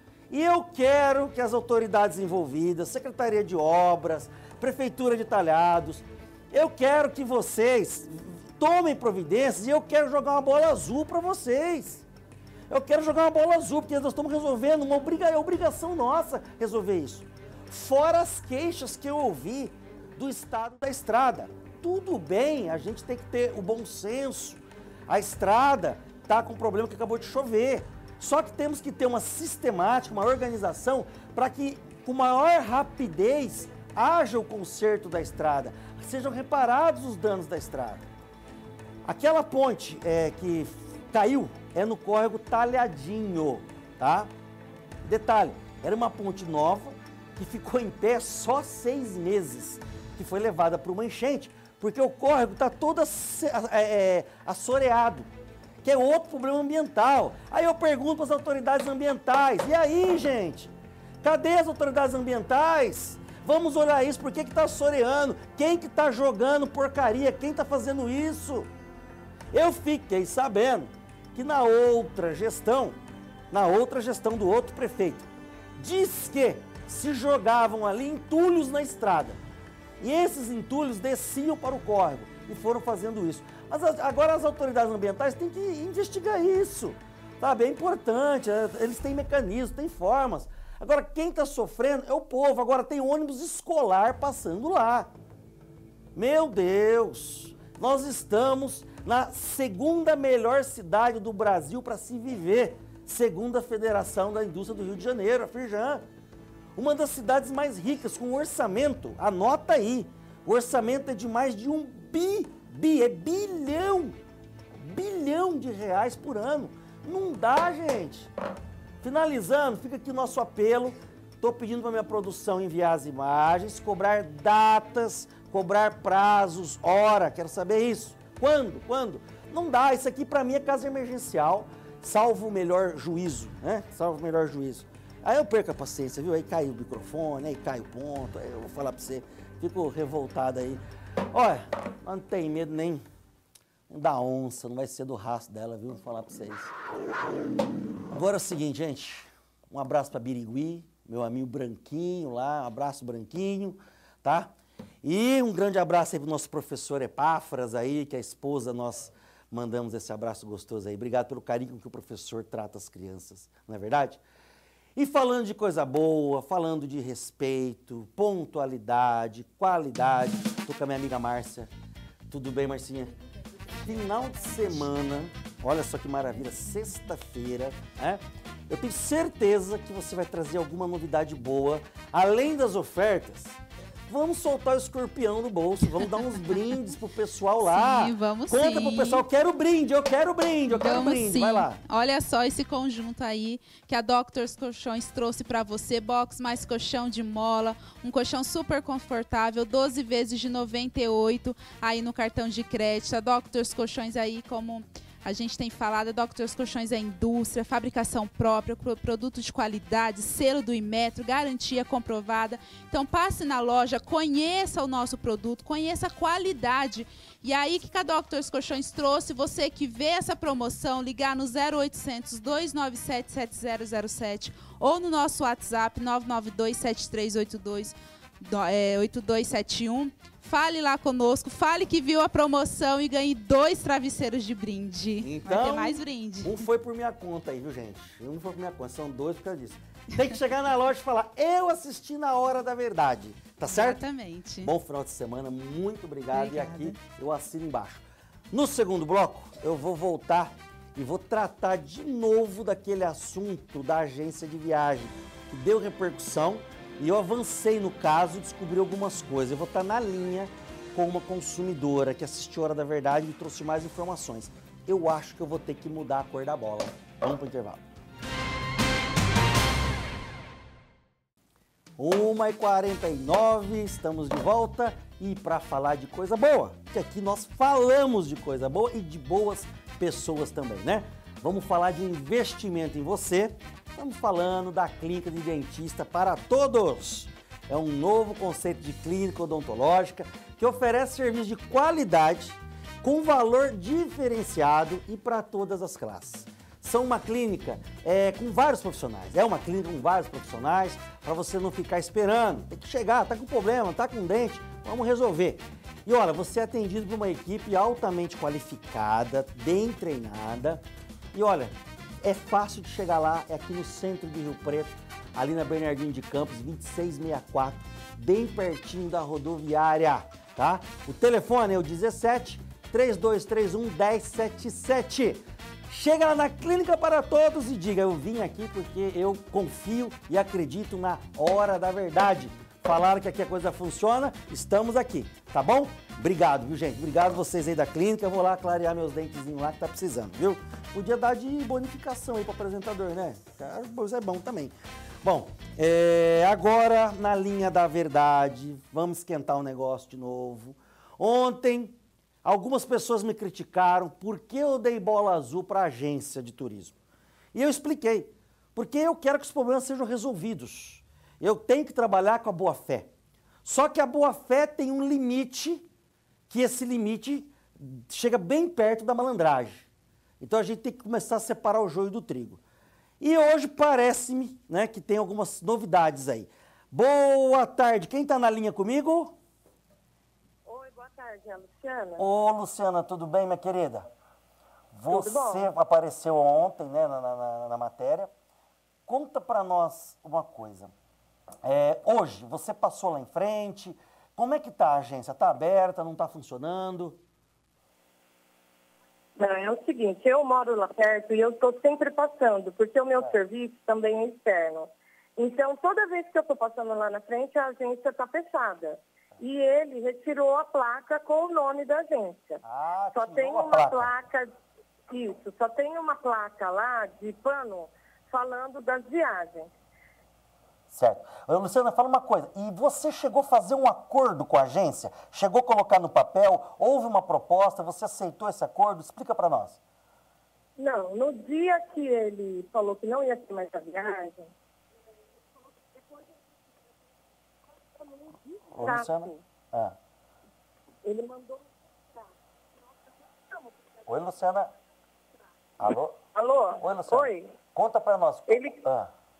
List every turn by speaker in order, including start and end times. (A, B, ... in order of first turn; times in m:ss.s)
0:00.3-0:12.0 A
0:12.7-0:38.0 A
0:39.1-0:44.3 A
0:45.0-0:55.3 A
0:55.8-1:00.7 A
1:01.2-1:08.7 A
1:09.5-1:13.0 A
1:13.5-1:19.4 A
1:20.0-1:35.1 A
1:36.2-1:46.0 A
1:46.8-1:54.2 A
1:54.8-1:58.3 A
1:59.0-2:20.8 A
2:21.3-2:23.0 A
2:23.9-2:26.7 A
2:28.1-2:44.2 A
2:45.0-2:51.7 A
2:52.3-2:53.1 A
2:53.8-3:03.6 A
3:04.1-3:11.8 A
3:07.6-3:09.2 B
3:10.7-3:56.6 B
3:55.2-4:04.1 A
4:03.6-4:04.7 B
4:04.6-4:27.8 A
4:06.3-4:07.0 B
4:32.0-5:10.8 A
5:11.3-5:57.0 A
5:57.5-6:03.1 A
6:03.6-6:05.8 A
6:06.5-6:09.9 A
6:10.4-6:12.6 A
6:13.2-6:19.4 A
6:20.7-6:22.2 C
6:22.2-6:24.1 A
6:25.0-6:28.3 A
6:25.1-6:25.7 C
6:29.1-6:30.9 A
6:31.6-6:37.2 A
6:39.4-6:52.6 C
6:52.6-6:54.1 A
6:53.2-6:54.5 C
6:55.1-6:59.7 C
7:00.9-7:09.8 A
7:10.8-7:14.5 C
7:17.9-7:19.4 C
7:18.8-7:20.0 A
7:21.0-7:21.6 C
7:24.1-7:24.7 A
7:25.8-7:26.2 A
7:26.4-7:27.5 C
7:26.8-7:29.1 A
7:28.5-7:28.8 C